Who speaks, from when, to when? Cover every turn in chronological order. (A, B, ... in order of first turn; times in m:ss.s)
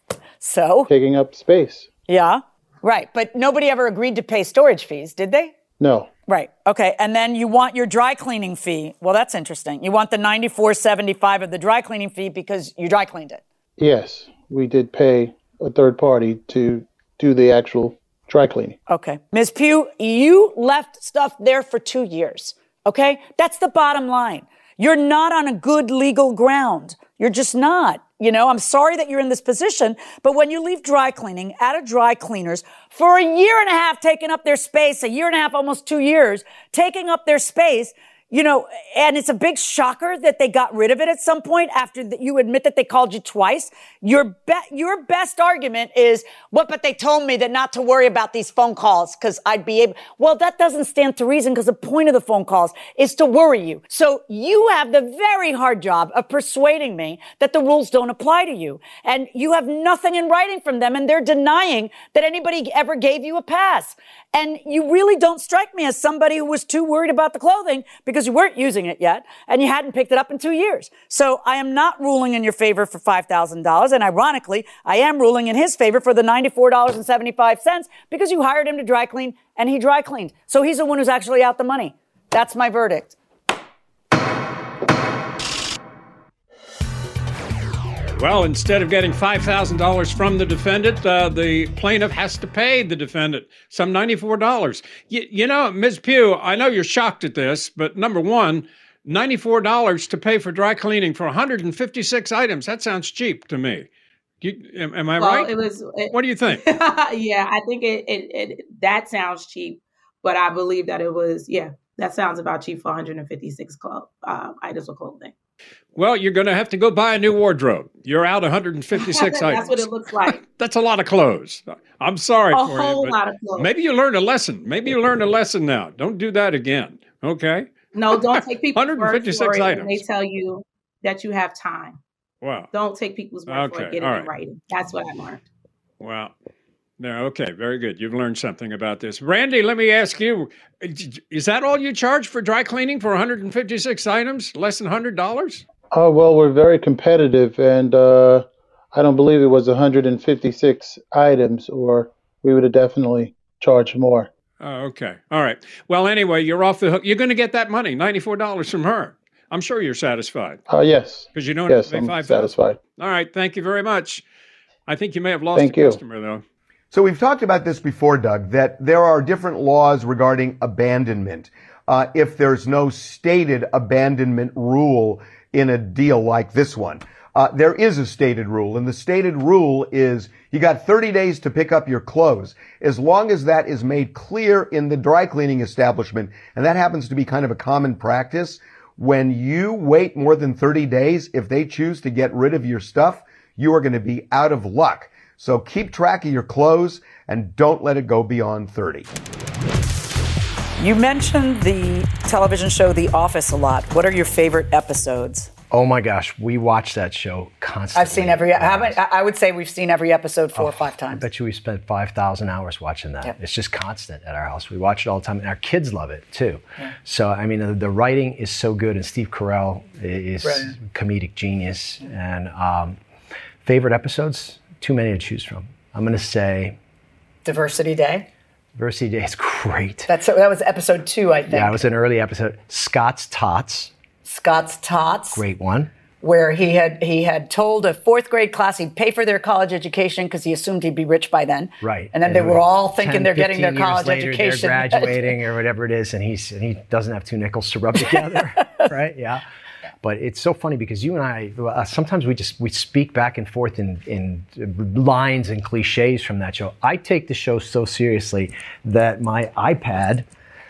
0:00.4-0:00.9 A
0:00.9-0:01.9 B
0:02.1-0:05.5 A
0:05.8-0:06.1 B
0:06.3-0:13.4 A
0:13.8-0:18.8 B
0:18.9-1:23.2 A
1:28.2-1:43.9 C
1:44.4-1:45.5 C
1:45.2-1:55.3 D
1:46.1-1:46.6 C
1:56.0-2:10.0 C
1:58.9-2:00.4 D
2:02.5-2:03.7 D
2:07.9-2:12.0 D
2:12.4-2:12.7 C
2:12.7-2:15.4 D
2:13.5-2:14.3 C
2:16.0-2:16.3 C
2:17.0-2:25.6 C
2:25.9-2:34.3 B
2:34.6-2:40.6 C
2:40.7-2:42.8 B
2:41.3-2:44.2 C
2:44.9-2:46.4 C
2:45.5-2:46.0 B
2:46.9-3:19.1 E
3:20.8-3:25.5 A
3:25.7-3:29.0 F
3:27.9-3:31.2 A
3:30.5-3:43.0 F
3:40.4-3:40.7 A
3:43.6-3:46.8 F
3:47.4-3:48.3 A
3:48.7-3:50.1 F
3:50.1-3:51.8 A
3:51.5-3:53.9 F
3:54.2-3:55.4 A
3:55.3-3:55.9 F
3:56.2-4:05.3 A
4:01.8-4:09.4 F
4:10.0-4:20.3 F